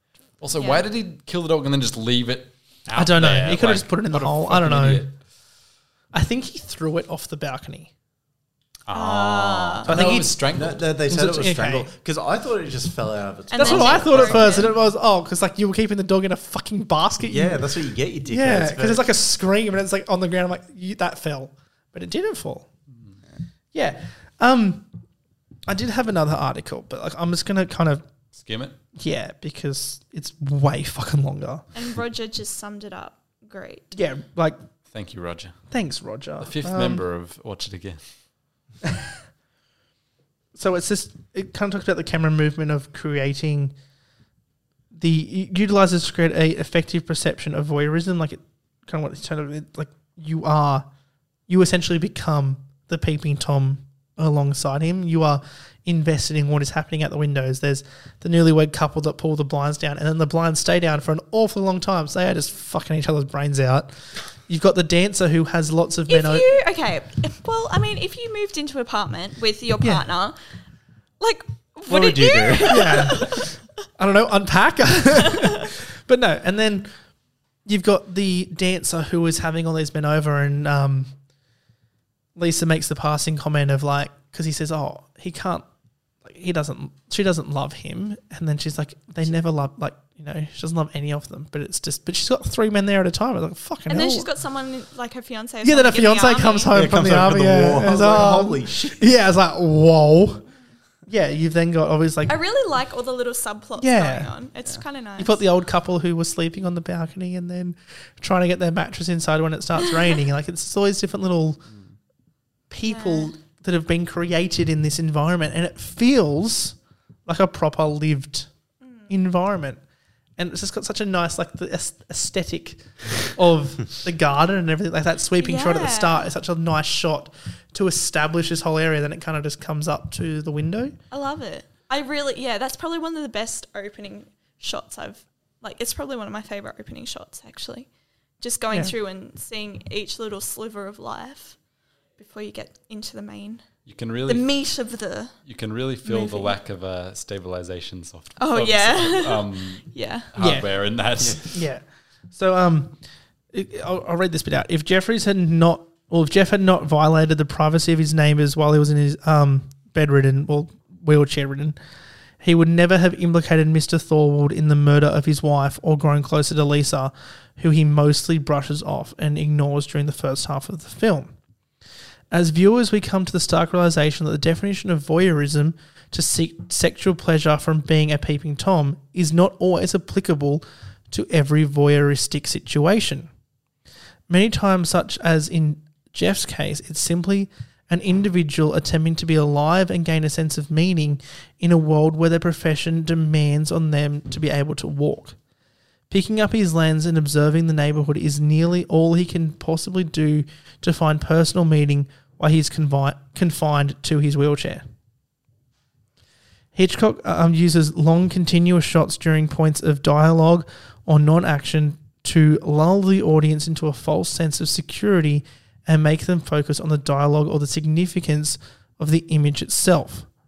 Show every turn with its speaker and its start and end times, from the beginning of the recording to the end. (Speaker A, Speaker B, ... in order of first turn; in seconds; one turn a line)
Speaker A: 0.4-5.2
Speaker B: 0.6-0.8
Speaker C: 2.9-5.0
Speaker C: 6.1-7.9
Speaker A: 8.9-10.9
Speaker B: 8.9-9.9
Speaker C: 9.9-10.4
Speaker D: 9.9-14.7
Speaker C: 11.1-11.9
Speaker B: 13.5-14.7
Speaker C: 13.6-17.7
Speaker D: 17.2-19.1
Speaker C: 18.2-22.7
Speaker A: 22.9-23.2
Speaker C: 23.7-24.9
Speaker C: 25.7-28.1
Speaker A: 28.3-28.8
Speaker C: 29.0-31.7
Speaker B: 31.7-34.0
Speaker C: 33.9-34.6
Speaker A: 34.9-35.6
Speaker C: 35.7-37.0
Speaker A: 36.4-38.0
Speaker C: 40.5-43.7
Speaker C: 44.9-50.9
Speaker C: 51.5-64.0
Speaker C: 64.5-66.5
Speaker B: 66.1-70.4
Speaker B: 71.2-73.5
Speaker D: 71.9-73.0
Speaker C: 72.7-76.9
Speaker C: 77.7-81.1
Speaker C: 82.4-85.7
Speaker C: 86.2-94.3
Speaker B: 93.9-96.7
Speaker C: 95.6-100.4
Speaker D: 96.7-99.1
Speaker C: 101.1-102.3
Speaker B: 102.3-105.4
Speaker C: 103.8-104.3
Speaker C: 105.2-111.6
Speaker C: 112.7-116.8
Speaker B: 112.8-113.3
Speaker C: 117.3-118.5
Speaker B: 118.8-119.1
Speaker C: 119.1-119.8
Speaker C: 120.4-131.0
Speaker B: 125.4-126.3
Speaker B: 131.1-137.9
Speaker B: 138.4-141.6
Speaker B: 142.2-143.6
Speaker A: 143.9-144.5
Speaker B: 144.3-145.4
Speaker A: 145.4-151.6
Speaker B: 146.1-146.6
Speaker B: 148.4-150.3
Speaker C: 150.4-150.7
Speaker C: 151.5-153.0
Speaker C: 153.5-161.8
Speaker C: 162.4-171.3
Speaker C: 172.3-183.3
Speaker C: 184.3-195.4
Speaker C: 196.1-204.8
Speaker C: 206.8-220.3